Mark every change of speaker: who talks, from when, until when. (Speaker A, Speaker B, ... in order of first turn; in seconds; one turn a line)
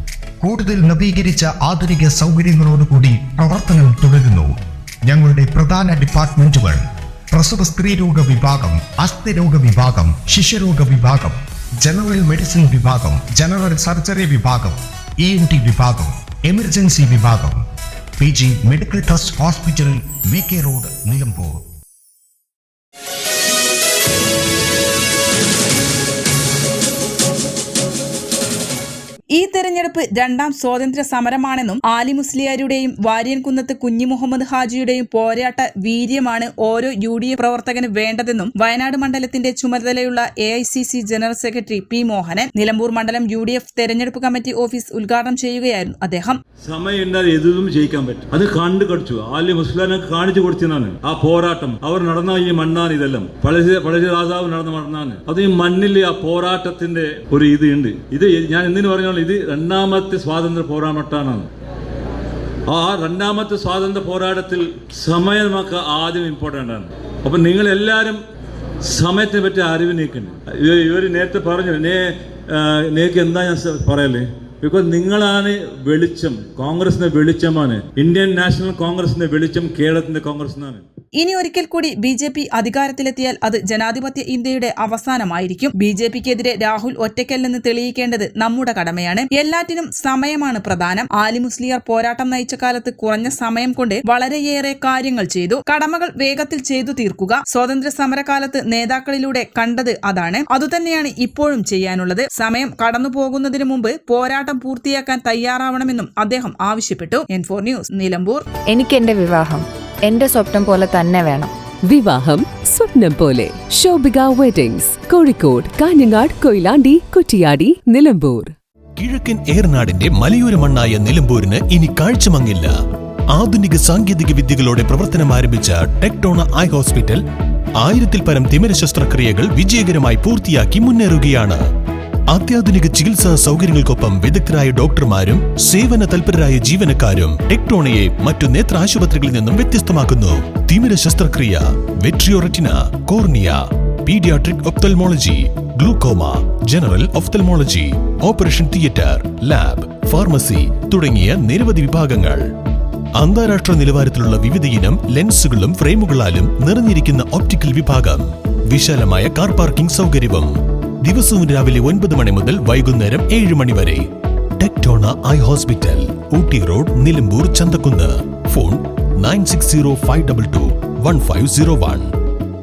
Speaker A: 0.4-4.5
Speaker A: 5.1-6.8
Speaker A: 7.3-17.6
Speaker A: 18.2-21.6
Speaker B: 29.3-46.4
Speaker C: 46.6-61.5
Speaker C: 62.7-68.2
Speaker C: 68.8-80.8
Speaker B: 81.2-108.5
Speaker D: 108.7-111.5
Speaker E: 111.9-118.5
Speaker F: 119.0-122.7
Speaker F: 123.3-127.2
Speaker F: 127.8-131.6
Speaker F: 132.3-152.4
Speaker F: 153.2-160.5
Speaker F: 161.0-164.1
Speaker F: 164.6-172.1